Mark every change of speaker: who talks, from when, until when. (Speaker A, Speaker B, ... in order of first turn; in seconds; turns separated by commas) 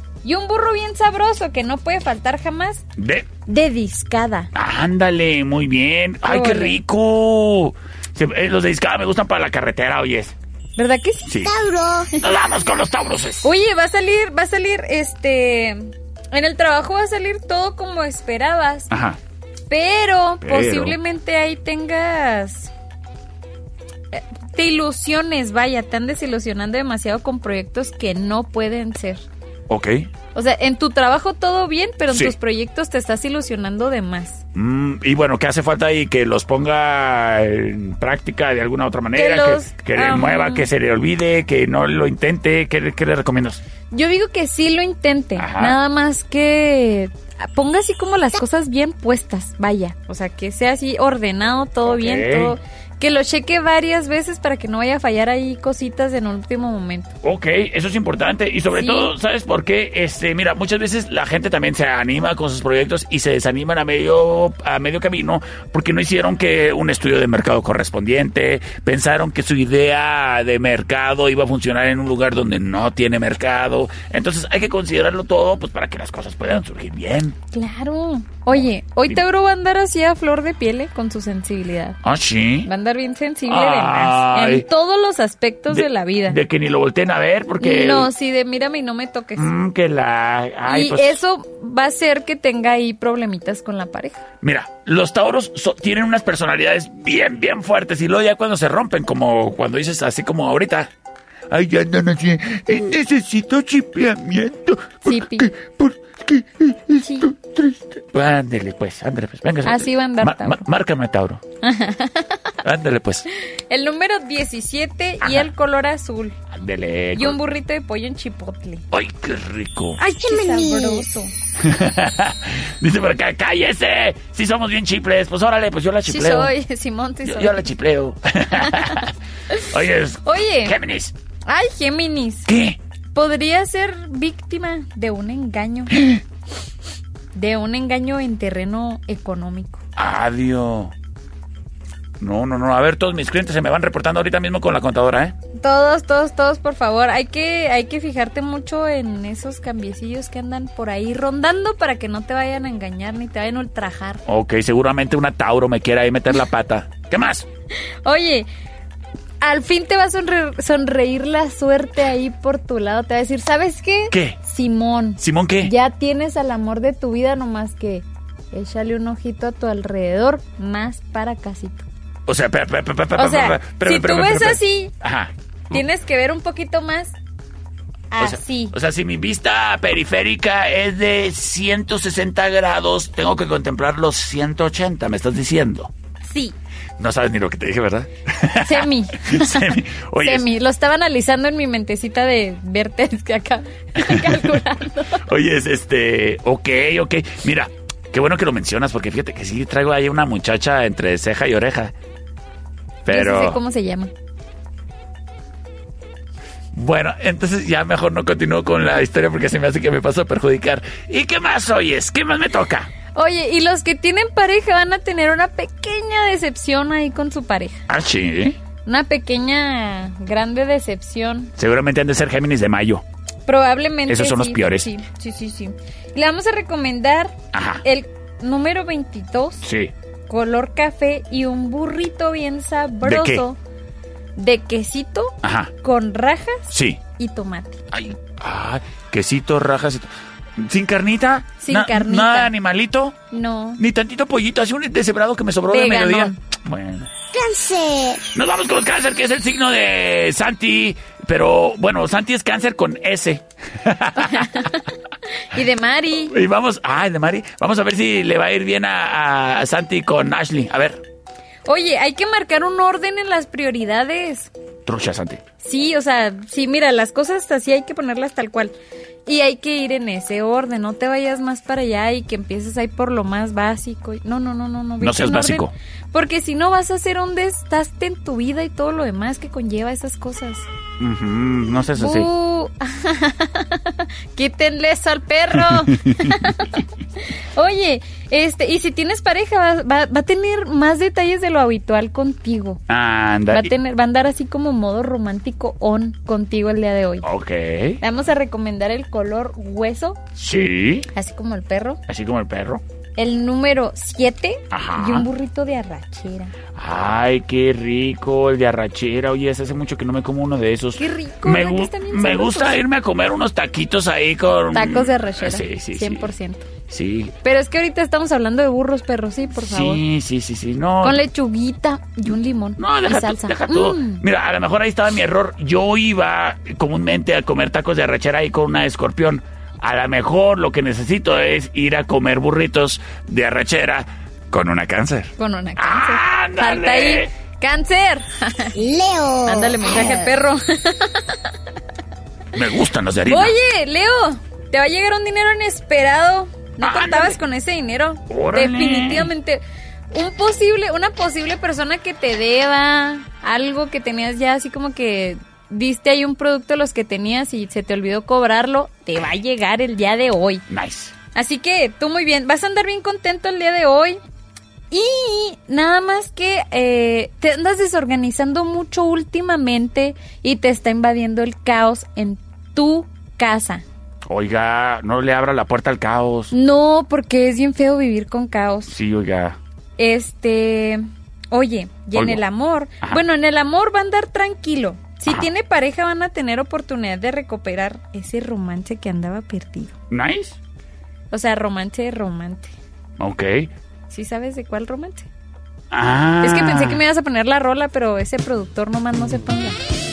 Speaker A: 0.2-2.8, Speaker B: 3.0-3.3, Speaker A: 3.5-4.5, Speaker B: 4.5-10.3, Speaker A: 6.2-6.8, Speaker A: 10.8-11.3, Speaker B: 11.2-11.5, Speaker C: 11.4-12.1, Speaker B: 12.2-13.5, Speaker A: 13.4-18.9, Speaker B: 18.9-19.2, Speaker A: 19.7-22.7, Speaker B: 20.4-21.0, Speaker A: 24.1-29.2, Speaker B: 29.7-30.1, Speaker A: 30.3-34.4, Speaker B: 34.5-43.6, Speaker A: 39.1-40.7, Speaker A: 43.9-57.1, Speaker B: 45.4-45.8, Speaker B: 51.9-52.6, Speaker B: 57.2-77.3, Speaker A: 58.7-59.1, Speaker A: 77.5-82.0, Speaker B: 78.5-79.2, Speaker B: 82.0-82.7, Speaker A: 82.6-86.4, Speaker B: 83.5-84.7, Speaker B: 85.7-88.1, Speaker A: 87.6-89.5, Speaker B: 89.3-91.2, Speaker A: 90.7-94.2, Speaker B: 94.4-100.9, Speaker B: 101.5-111.4, Speaker A: 105.0-105.5, Speaker A: 107.0-107.3, Speaker A: 109.6-110.6, Speaker A: 111.6-112.5, Speaker B: 112.6-113.2, Speaker A: 113.4-116.4, Speaker B: 115.2-115.5, Speaker B: 116.5-117.4, Speaker A: 117.1-118.8, Speaker B: 118.9-120.0, Speaker A: 120.0-121.3, Speaker C: 120.1-121.0, Speaker B: 121.6-126.5, Speaker A: 126.0-127.7, Speaker B: 127.2-131.1, Speaker A: 128.6-129.7, Speaker A: 130.2-130.8, Speaker A: 131.4-132.5, Speaker B: 132.5-132.8, Speaker A: 133.1-136.0, Speaker B: 135.9-136.2, Speaker A: 137.3-139.8, Speaker B: 139.9-140.9, Speaker B: 142.2-145.3, Speaker A: 145.6-154.2, Speaker B: 154.2-157.4, Speaker A: 158.0-158.5, Speaker A: 159.4-171.9, Speaker B: 164.1-164.4, Speaker B: 165.2-165.7, Speaker B: 172.2-175.8, Speaker A: 173.1-174.9, Speaker A: 175.7-177.1, Speaker A: 178.1-178.7, Speaker B: 178.2-185.9, Speaker A: 186.2-186.6, Speaker B: 187.0-190.5, Speaker A: 188.6-195.2, Speaker B: 193.9-194.6, Speaker B: 195.1-201.9, Speaker B: 203.0-203.6, Speaker A: 203.1-204.1, Speaker B: 206.7-212.9, Speaker A: 213.1-217.8, Speaker B: 217.9-218.6, Speaker A: 218.8-221.5, Speaker B: 221.6-223.0, Speaker A: 223.4-229.6, Speaker B: 224.1-224.9, Speaker B: 227.5-227.8, Speaker B: 229.6-229.9, Speaker A: 230.3-233.6, Speaker B: 233.0-233.4, Speaker A: 234.3-237.8, Speaker B: 235.4-235.7, Speaker B: 236.7-237.0, Speaker B: 237.9-243.2, Speaker A: 241.6-242.5, Speaker A: 243.3-243.8, Speaker B: 243.8-247.1, Speaker A: 245.7-246.4, Speaker C: 247.3-248.2, Speaker B: 248.3-254.8, Speaker A: 254.2-256.3, Speaker B: 256.3-261.0, Speaker A: 261.6-264.5, Speaker B: 264.9-265.4, Speaker A: 265.6-268.7, Speaker A: 269.2-280.6, Speaker B: 275.0-275.7, Speaker B: 281.0-282.3, Speaker A: 281.9-292.8, Speaker B: 285.5-286.6, Speaker B: 292.9-293.7, Speaker A: 293.5-297.3, Speaker B: 297.2-298.0, Speaker A: 298.0-300.2, Speaker B: 300.3-301.1, Speaker A: 301.1-302.0, Speaker B: 302.1-302.8, Speaker A: 303.2-306.5, Speaker B: 304.7-305.3, Speaker B: 306.7-316.3, Speaker A: 311.0-312.8, Speaker A: 314.7-316.7, Speaker B: 316.9-317.3, Speaker A: 317.4-320.0, Speaker B: 319.6-321.2, Speaker A: 321.0-324.2, Speaker B: 322.8-337.3, Speaker A: 335.4-338.7, Speaker C: 338.7-340.3, Speaker A: 339.4-341.5, Speaker B: 342.5-343.6, Speaker A: 343.3-360.6, Speaker B: 346.8-347.4, Speaker B: 348.3-349.3, Speaker B: 360.7-361.1, Speaker A: 361.3-364.2, Speaker A: 364.9-373.8, Speaker B: 374.2-376.5, Speaker A: 376.5-378.9, Speaker B: 378.9-379.6, Speaker A: 380.0-389.9, Speaker B: 382.1-382.4, Speaker B: 390.1-390.6, Speaker A: 391.3-392.7, Speaker B: 393.2-393.7, Speaker A: 394.1-395.3, Speaker B: 395.9-397.0, Speaker A: 396.4-399.8